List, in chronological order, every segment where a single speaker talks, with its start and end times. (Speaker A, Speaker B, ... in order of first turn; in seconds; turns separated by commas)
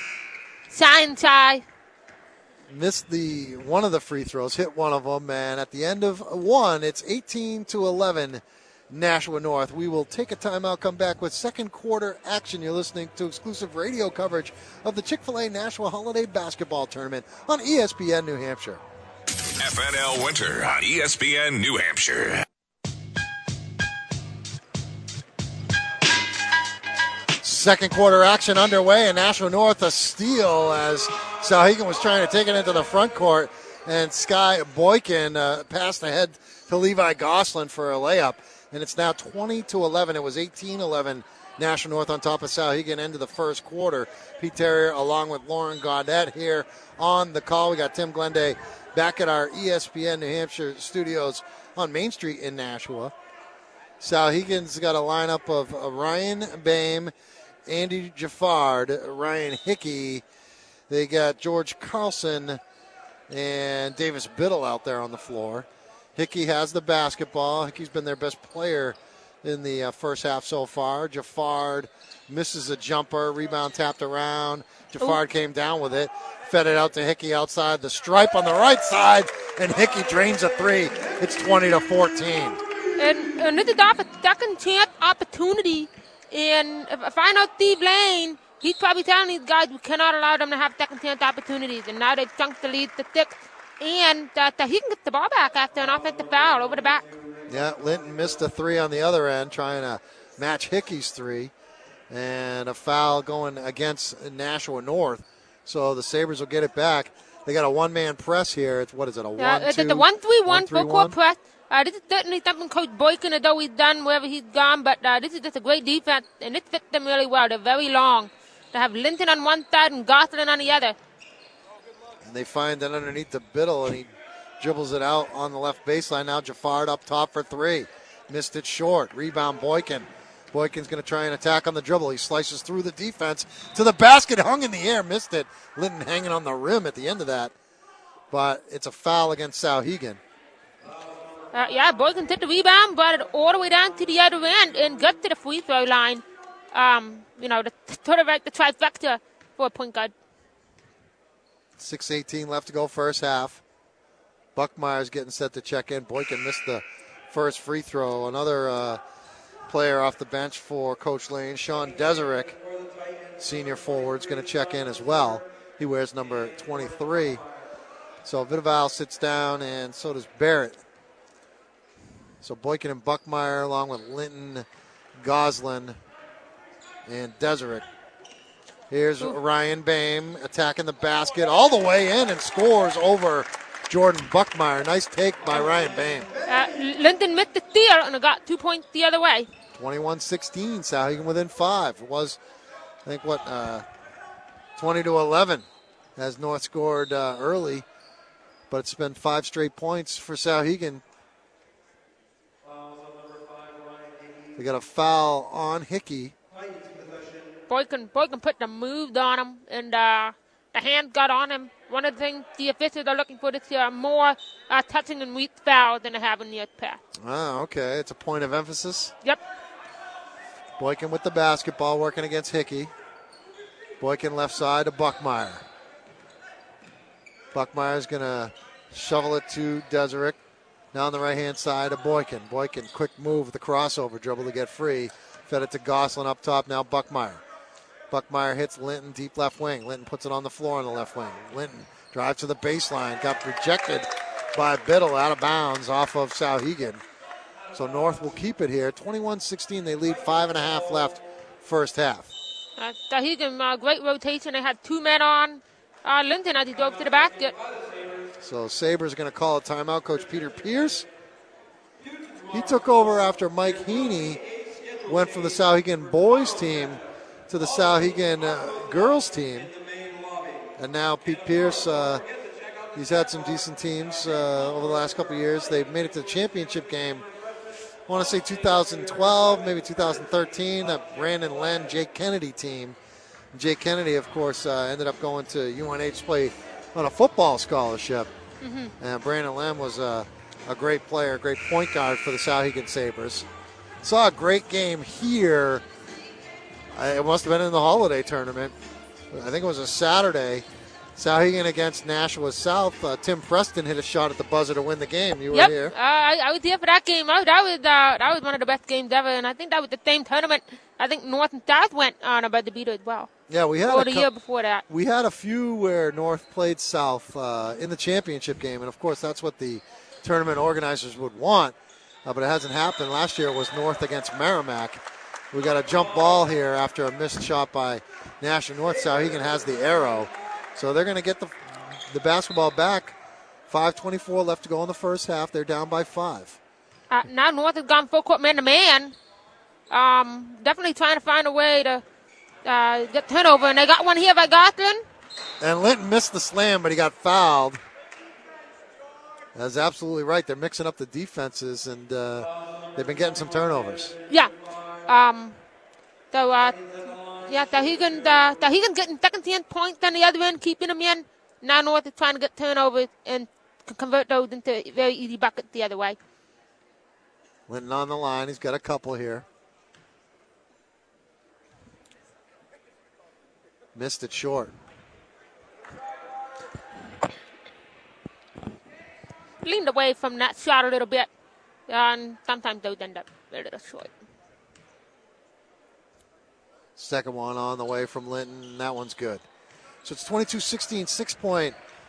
Speaker A: 0.7-1.6, Speaker B: 2.7-18.8, Speaker C: 19.6-22.4, Speaker B: 27.4-53.1, Speaker B: 54.0-57.1, Speaker B: 57.7-60.2, Speaker B: 60.9-62.6, Speaker B: 63.3-82.6, Speaker A: 83.0-97.1, Speaker B: 97.5-101.5, Speaker B: 102.1-111.2, Speaker A: 109.4-121.0, Speaker B: 122.2-124.1, Speaker B: 124.6-137.5, Speaker B: 138.3-140.2, Speaker A: 141.5-150.1, Speaker B: 151.8-153.6, Speaker B: 154.6-159.0, Speaker B: 159.7-162.6, Speaker B: 163.4-167.4, Speaker B: 168.2-170.8, Speaker B: 172.4-174.7, Speaker B: 175.2-176.0, Speaker B: 177.1-177.8, Speaker B: 178.9-186.3, Speaker A: 186.5-189.5, Speaker B: 189.8-192.4, Speaker B: 193.1-193.8, Speaker B: 194.8-195.7, Speaker B: 196.2-197.8, Speaker B: 198.7-201.0, Speaker B: 204.6-206.3, Speaker A: 207.7-217.0, Speaker B: 217.2-219.1, Speaker B: 220.8-222.9, Speaker B: 224.0-225.7, Speaker B: 227.5-230.4, Speaker B: 230.9-237.4, Speaker B: 238.1-247.0, Speaker B: 247.7-252.3, Speaker A: 252.8-257.6, Speaker B: 258.4-261.1, Speaker B: 262.5-264.4, Speaker B: 265.1-269.7, Speaker B: 270.8-272.2, Speaker B: 272.9-277.3, Speaker B: 278.1-283.0, Speaker B: 283.5-288.3, Speaker A: 288.6-288.9, Speaker B: 289.0-293.5, Speaker B: 294.0-295.8, Speaker B: 296.9-298.7, Speaker B: 299.3-300.6, Speaker B: 301.2-305.9, Speaker A: 305.5-313.3, Speaker B: 313.5-314.3, Speaker A: 313.9-314.9, Speaker B: 314.9-333.2, Speaker B: 333.7-336.6, Speaker A: 337.1-339.2, Speaker A: 339.9-342.0, Speaker A: 342.6-345.0, Speaker B: 345.6-347.8, Speaker B: 349.6-354.2, Speaker A: 355.1-355.6, Speaker A: 356.3-366.2, Speaker B: 367.7-369.4, Speaker B: 373.9-374.7, Speaker A: 379.6-381.3, Speaker A: 381.9-384.1, Speaker B: 387.0-389.4, Speaker B: 390.0-391.8